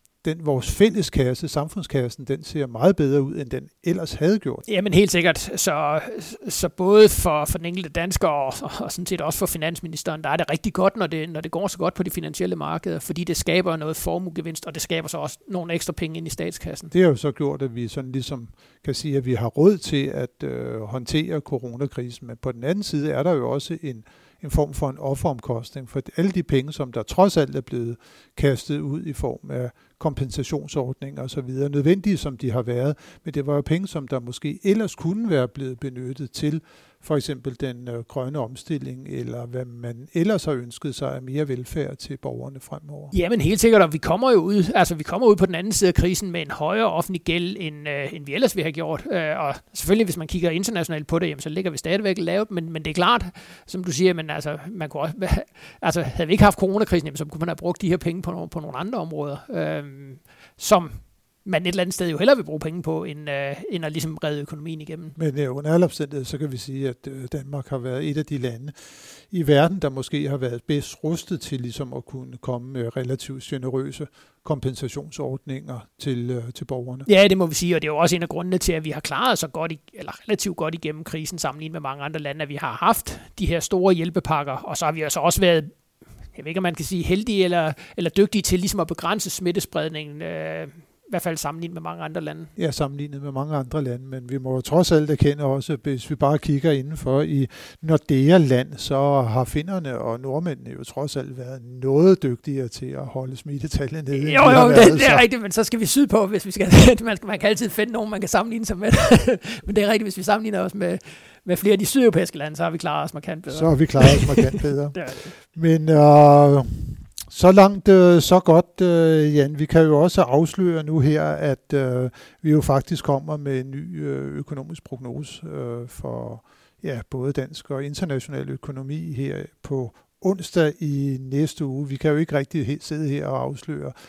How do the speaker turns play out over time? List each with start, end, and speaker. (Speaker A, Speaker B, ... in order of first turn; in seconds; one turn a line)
Speaker A: 0.2-4.6
Speaker B: 4.7-16.9
Speaker A: 16.9-43.1
Speaker B: 43.1-65.2
Speaker A: 65.2-77.1
Speaker B: 77.0-85.7
Speaker B: 86.3-92.5
Speaker A: 92.6-105.2
Speaker B: 104.1-115.3
Speaker A: 113.5-133.9